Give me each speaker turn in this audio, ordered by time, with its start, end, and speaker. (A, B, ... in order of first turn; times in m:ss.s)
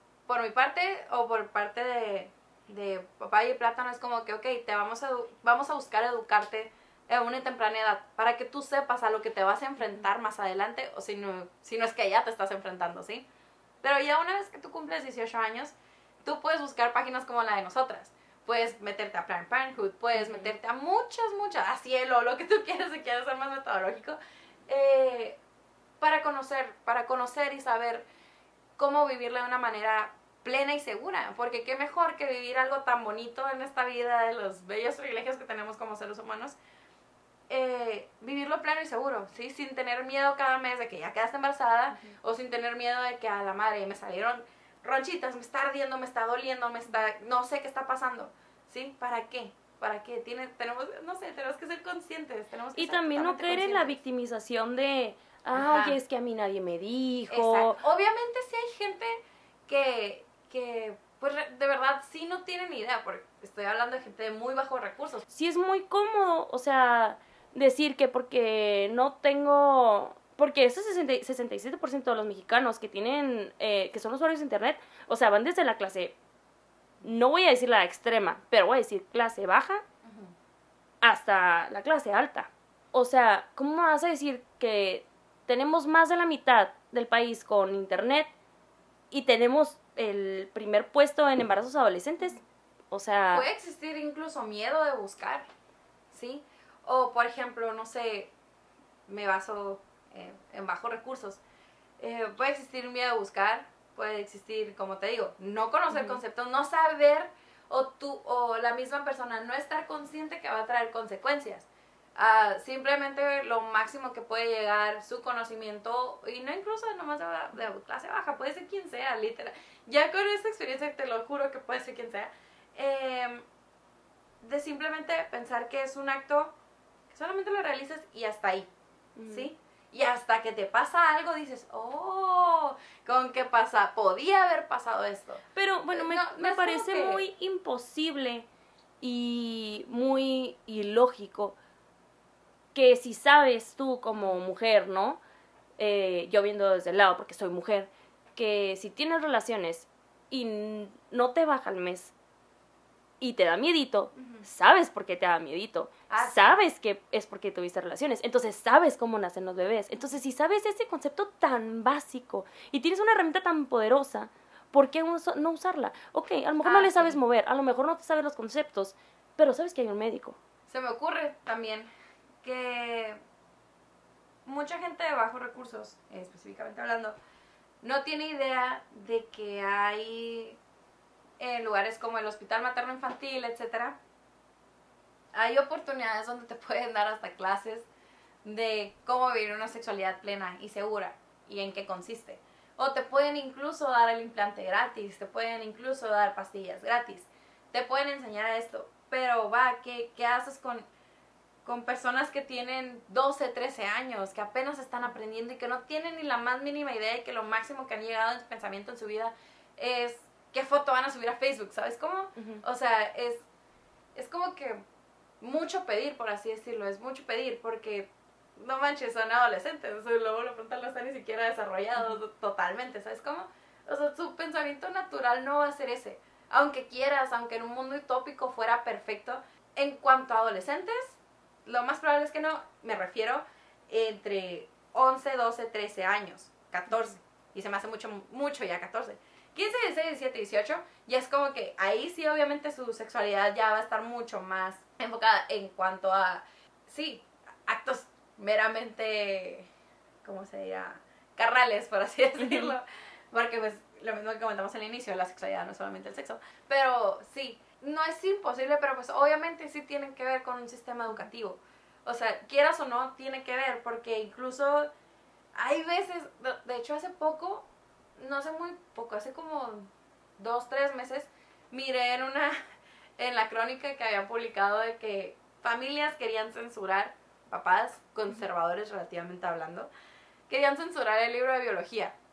0:00.3-0:13.3 A
0:13.8-0:24.2 A
0:20.2-0:20.5 B
0:24.7-0:25.4 A
0:26.0-0:28.1 A
0:28.8-0:36.6 A
0:37.5-0:54.0 A
0:52.8-0:57.8 B
0:55.6-0:56.0 A
0:57.3-1:05.2 A
1:05.3-1:16.2 B
1:17.0-1:19.8 B
1:20.0-1:20.3 A
1:21.0-1:28.3 B
1:29.1-1:32.4 B
1:32.9-1:33.5 B
1:33.3-1:35.5 A
1:36.1-1:38.3 A
1:39.1-1:41.4 A
1:42.0-2:03.4 A
1:45.9-1:46.2 B
2:04.4-2:06.6 A
2:07.1-2:08.7 A
2:09.2-2:09.5 B
2:09.3-2:17.2 A
2:15.6-2:18.5 B
2:19.0-2:21.6 B
2:22.7-2:25.2 B
2:25.8-2:32.1 B
2:33.2-2:50.4 B
2:34.2-2:34.4 A
2:36.1-2:36.6 A
2:46.6-2:47.2 A
2:50.7-2:51.9 A
2:52.4-2:53.2 A
2:54.5-2:57.2 A
2:57.8-3:00.6 A
3:01.4-3:04.0 A
3:05.3-3:07.9 A
3:08.4-3:20.9 A
3:21.6-3:33.4 A
3:32.4-3:32.6 B
3:34.2-3:34.8 A
3:35.4-4:09.7 A
4:10.2-4:24.9 A
4:12.4-4:12.7 B
4:25.6-4:32.6 A
4:33.2-4:39.9 A
4:40.5-4:42.2 A